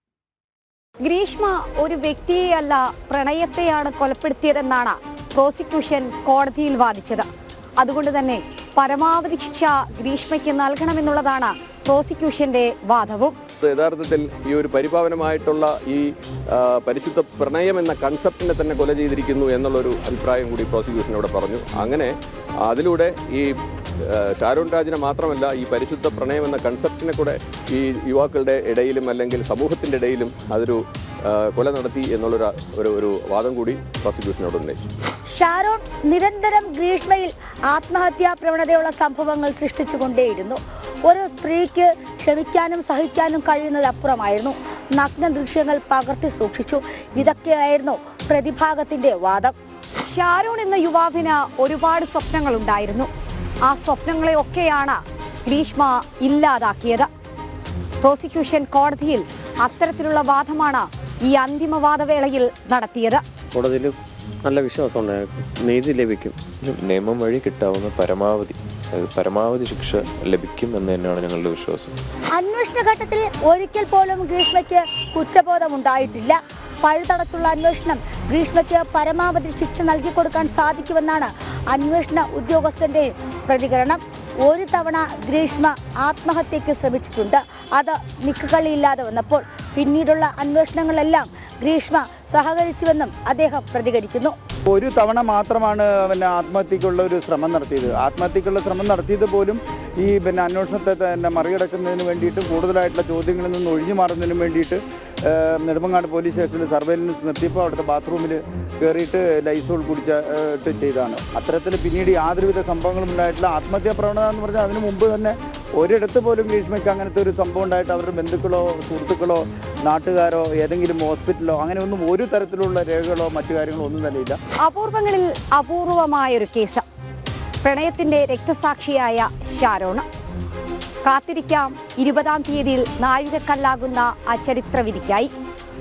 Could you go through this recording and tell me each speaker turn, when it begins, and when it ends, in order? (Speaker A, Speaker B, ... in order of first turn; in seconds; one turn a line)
Speaker A: 1.0-7.3
Speaker A: 7.8-13.4
Speaker B: 13.6-22.1
Speaker B: 22.6-23.5
Speaker B: 24.0-34.8
Speaker C: 35.3-49.5
Speaker A: 50.1-53.1
Speaker A: 53.7-57.1
Speaker A: 58.0-63.2
Speaker D: 63.5-66.4
Speaker E: 66.6-72.0
Speaker C: 72.3-94.3
Speaker F: 94.7-124.4
Speaker A: 124.6-126.8
Speaker A: 127.6-130.1
Speaker A: 131.1-135.3